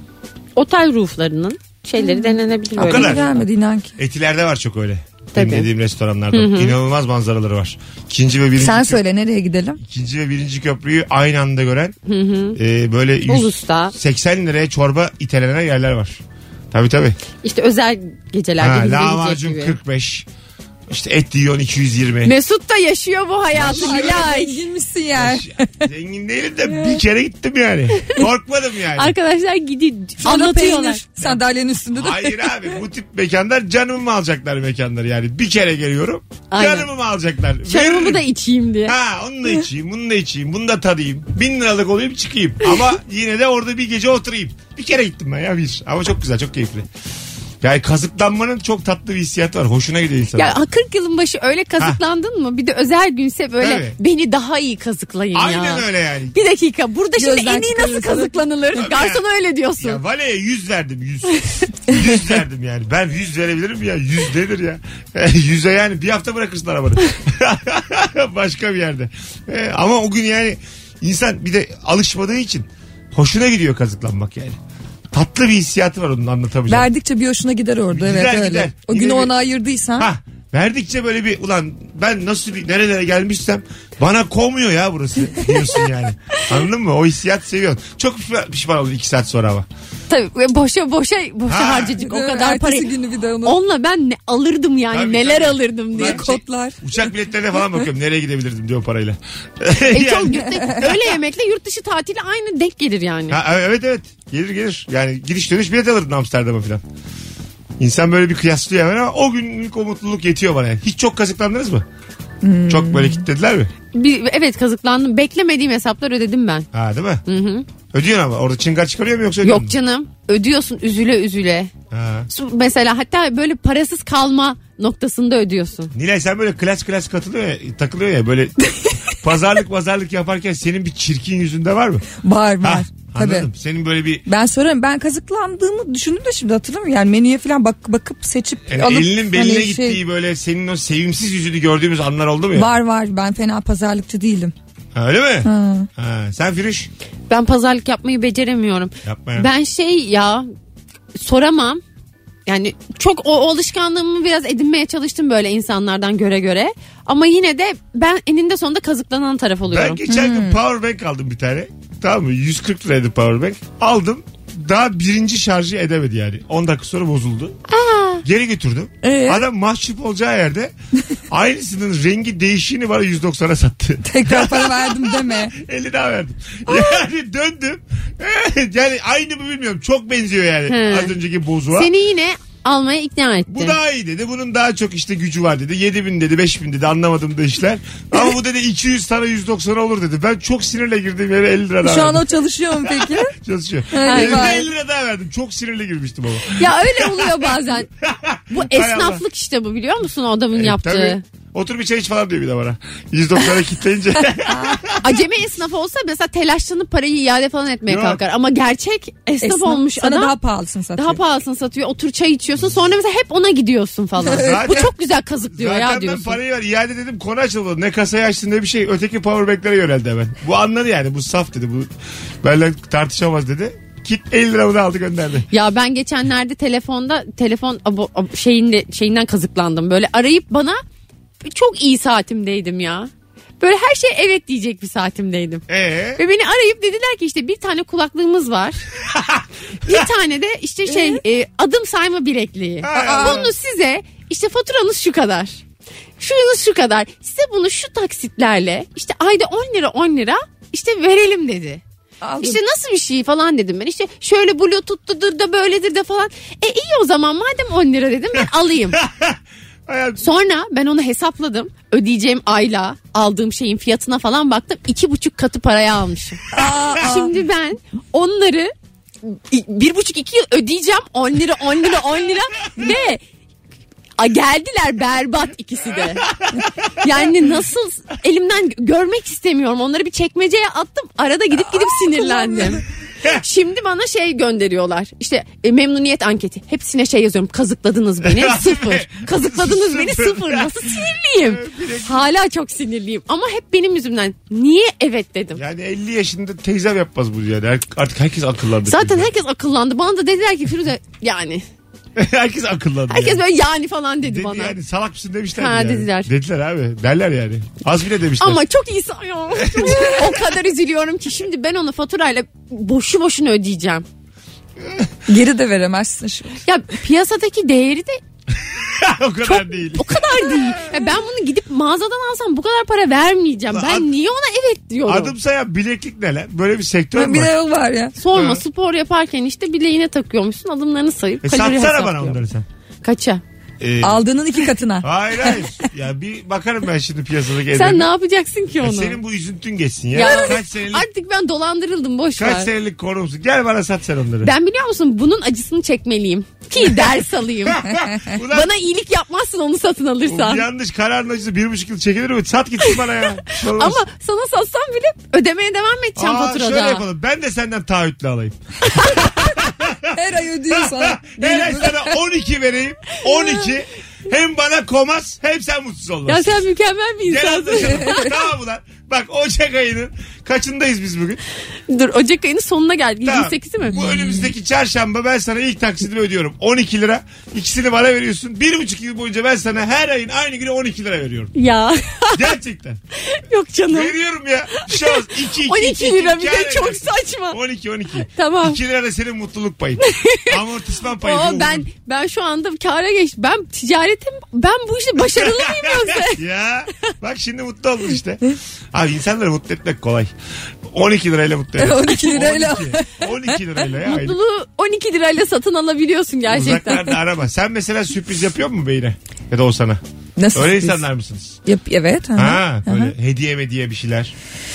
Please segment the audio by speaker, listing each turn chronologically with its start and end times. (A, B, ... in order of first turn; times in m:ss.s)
0:00.6-0:03.4 A
0:02.0-0:03.9 B
0:02.8-0:03.3 C
0:04.0-0:09.0 C
0:05.3-0:05.7 A
0:06.3-0:06.8 A
0:08.6-0:09.8 B
0:09.8-0:12.0 C
0:12.0-0:12.6 A
0:12.6-0:16.2 C
0:13.3-0:13.9 A
0:16.7-0:17.2 C
0:17.4-0:19.8 A
0:18.6-0:20.3 C
0:20.9-0:22.3 C
0:22.2-0:24.6 A
0:23.5-0:24.2 C
0:23.7-0:25.8 B
0:25.2-0:29.1 C
0:29.0-0:31.0 A
0:30.2-0:32.6 B
0:31.9-0:38.2 C
0:36.5-0:36.9 A
0:37.6-0:38.9 A
0:38.8-0:46.9 C
0:47.6-0:50.5 C
0:50.3-1:00.0 A
0:53.6-0:54.0 C
0:55.3-0:56.3 C
0:57.2-0:58.4 B
0:58.8-0:59.2 C
0:59.8-1:14.6 C
1:15.1-1:16.9 C
1:16.7-1:20.1 B
1:17.9-1:19.3 C
1:20.0-1:29.7 C
1:30.1-1:32.9 A
1:31.5-1:32.0 C
1:32.0-1:33.6 B
1:33.4-1:36.3 A
1:34.9-1:41.1 C
1:36.0-1:36.8 B
1:39.9-1:43.4 A
1:43.3-1:46.8 C
1:47.8-1:51.8 C
1:52.4-1:53.2 B
1:52.7-1:53.7 C
1:53.9-1:56.7 A
1:56.7-1:57.2 C
1:57.2-1:57.7 A
1:57.9-1:59.8 C
1:59.4-2:01.7 A
2:01.9-2:02.3 C
2:02.3-2:05.9 A
2:05.9-2:12.1 C
2:12.2-2:13.5 B
2:12.6-2:14.2 C
2:14.2-2:20.0 B
2:18.7-2:22.7 C
2:22.5-2:24.5 B
2:24.9-2:26.9 C
2:25.4-2:25.9 B
2:27.3-2:30.5 A
2:29.0-2:29.5 C
2:31.1-2:31.8 A
2:32.5-2:40.0 A
2:39.7-2:47.6 C
2:40.1-2:40.6 B
2:47.7-2:48.2 A
2:48.2-2:50.7 C
2:49.0-2:49.4 B
2:51.3-3:01.9 C
2:54.0-2:55.5 B
3:00.7-3:01.1 A
3:01.7-3:03.8 A
3:03.5-3:12.2 C
3:11.8-3:13.3 B
3:12.8-3:19.2 C
3:13.9-3:14.6 B
3:14.0-3:14.6 A
3:16.5-3:17.9 A
3:18.5-3:21.2 A
3:20.5-3:25.2 C
3:24.4-3:24.8 B
3:25.0-3:30.3 A
3:27.9-3:28.2 C
3:29.4-3:31.2 B
3:31.0-3:36.4 A
3:34.2-3:34.9 C
3:34.3-3:34.6 B
3:35.5-3:41.9 C
3:42.4-3:45.5 C
3:45.5-3:50.8 A
3:51.4-3:55.6 A
3:55.7-3:56.2 C
3:56.2-3:58.8 A
3:59.0-4:00.0 C
3:59.8-4:05.6 A
4:02.8-4:03.5 C
4:02.9-4:03.4 B
4:06.2-4:11.8 A
4:12.2-4:12.6 B
4:12.4-4:19.0 A
4:18.9-4:20.2 C
4:20.2-4:28.7 A
4:26.5-4:27.3 B
4:29.2-4:33.2 A
4:34.2-4:36.3 A
4:36.2-4:37.0 C
4:37.0-4:55.6 A
4:48.2-4:52.2 C
4:55.5-4:59.3 C
4:58.8-5:01.6 A
5:02.2-5:03.4 C
5:03.1-5:04.8 A
5:04.2-5:08.6 C
5:05.6-5:06.3 A
5:08.4-5:14.0 A
5:09.6-5:10.2 C
5:14.8-5:15.1 C
5:15.3-5:16.6 B
5:16.6-5:18.2 A
5:18.6-5:20.2 C
5:19.4-5:25.3 A
5:23.7-5:24.1 C
5:25.0-5:27.5 C
5:27.2-5:28.1 B
5:28.2-5:32.4 A
5:28.3-5:28.6 C
5:31.4-5:32.6 C
5:33.0-5:33.4 A
5:33.8-5:34.2 C
5:34.0-5:35.6 B
5:35.0-5:38.1 C
5:37.7-5:39.2 A
5:38.8-5:41.0 C
5:40.1-5:42.7 A
5:42.4-5:44.5 C
5:44.4-5:47.9 A
5:47.6-5:48.7 C
5:48.4-5:50.6 A
5:50.2-5:54.0 C
5:53.6-5:57.0 A
5:56.2-6:00.2 C
6:00.1-6:02.1 B
6:00.7-6:06.6 C
6:06.3-6:08.3 A
6:07.2-6:11.4 C
6:11.9-6:14.0 A
6:13.2-6:21.5 C
6:13.9-6:14.5 B
6:21.5-6:22.5 A
6:22.3-6:23.0 C
6:23.2-6:24.2 A
6:23.9-6:31.9 C
6:24.7-6:27.6 A
6:28.3-6:28.8 A
6:30.0-6:30.6 A
6:31.2-6:36.4 A
6:35.3-6:40.3 C
6:40.8-6:44.4 C
6:41.8-6:43.6 B
6:44.0-6:47.1 A
6:46.5-6:50.0 C
6:50.4-6:51.0 B
6:50.5-6:51.6 C
6:51.6-6:53.1 B
6:52.4-6:54.3 C